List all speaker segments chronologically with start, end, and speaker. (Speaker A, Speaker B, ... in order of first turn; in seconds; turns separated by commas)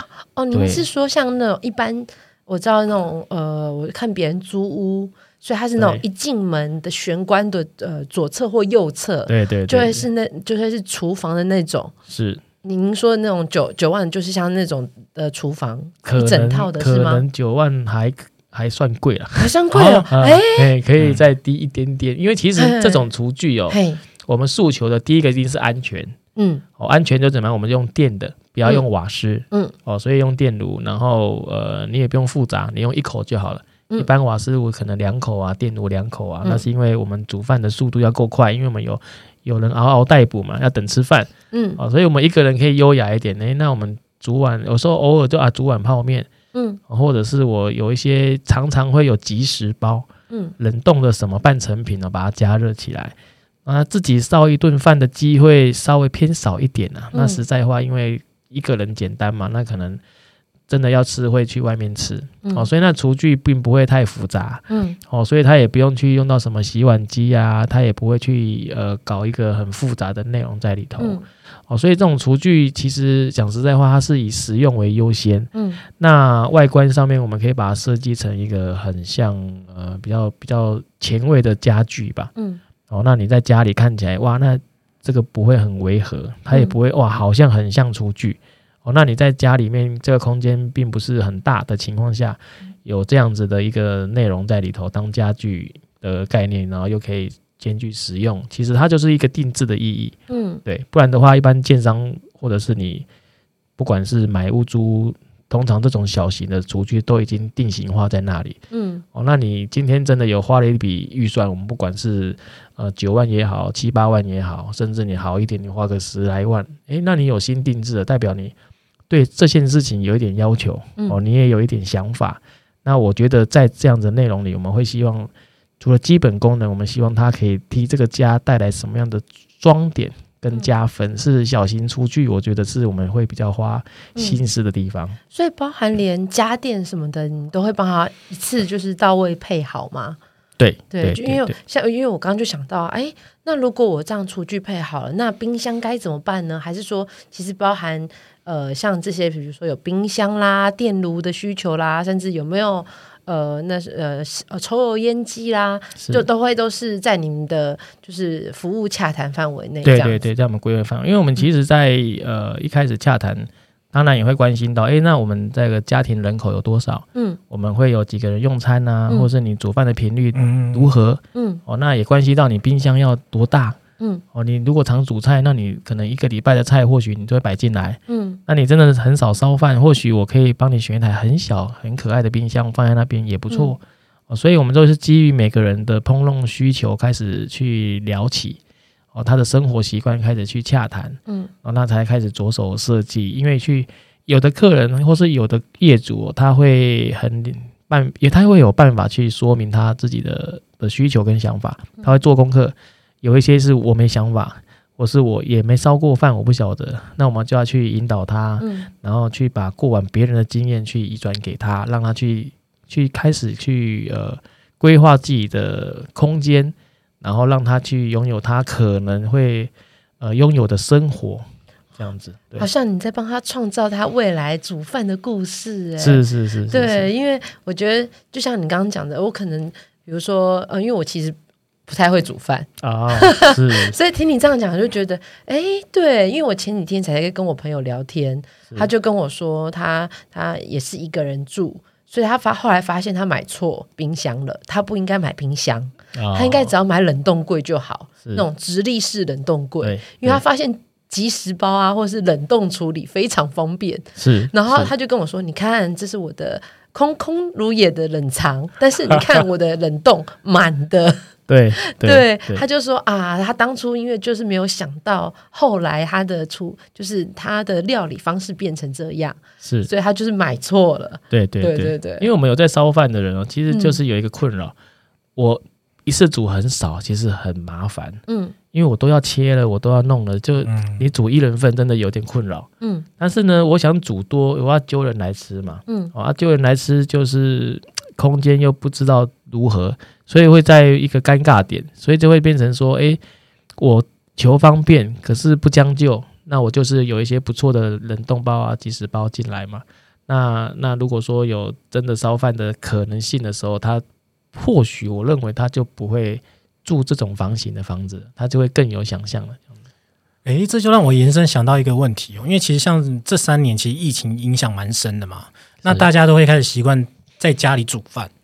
Speaker A: 0.3-11.9, Speaker B: 0.5-0.8, Speaker B: 5.8-6.0, Speaker B: 9.3-10.1, Speaker B: 12.1-12.4, Speaker A: 12.6-17.2, Speaker B: 16.0-19.5, Speaker A: 19.4-20.7, Speaker C: 19.7-20.1, Speaker B: 20.1-26.1, Speaker A: 22.6-23.1, Speaker A: 23.7-24.0, Speaker A: 26.4-26.6, Speaker B: 26.8-46.3, Speaker A: 41.5-41.8, Speaker A: 46.5-46.8, Speaker B: 46.9-50.1, Speaker B: 50.6-60.0, Speaker A: 57.1-57.4, Speaker B: 60.7-82.3, Speaker A: 64.7-65.0, Speaker A: 71.0-71.2, Speaker A: 75.5-75.8, Speaker A: 82.3-82.6, Speaker B: 82.9-103.0, Speaker A: 100.3-100.6, Speaker B: 103.8-108.6, Speaker A: 108.7-109.0, Speaker B: 109.1-118.5, Speaker B: 119.1-135.2, Speaker A: 135.3-140.2, Speaker B: 140.6-141.5, Speaker A: 140.9-160.2, Speaker B: 156.0-156.3, Speaker B: 159.8-173.8, Speaker C: 170.3-170.9, Speaker A: 171.3-171.6, Speaker B: 174.3-188.6, Speaker A: 178.1-178.4, Speaker B: 189.1-222.7, Speaker A: 208.6-208.9, Speaker A: 222.6-261.3, Speaker B: 226.0-227.1, Speaker B: 232.8-233.9, Speaker B: 246.1-246.7, Speaker B: 249.8-250.4, Speaker B: 254.2-254.9, Speaker B: 261.5-262.6, Speaker A: 261.8-272.3, Speaker B: 269.6-269.9, Speaker B: 271.3-274.7, Speaker A: 273.7-274.0, Speaker B: 275.4-278.2, Speaker A: 278.3-278.5, Speaker B: 278.7-293.2, Speaker C: 280.6-281.0, Speaker A: 282.8-283.1, Speaker A: 285.9-286.1, Speaker B: 293.8-304.0, Speaker B: 304.5-309.7, Speaker C: 310.4-318.3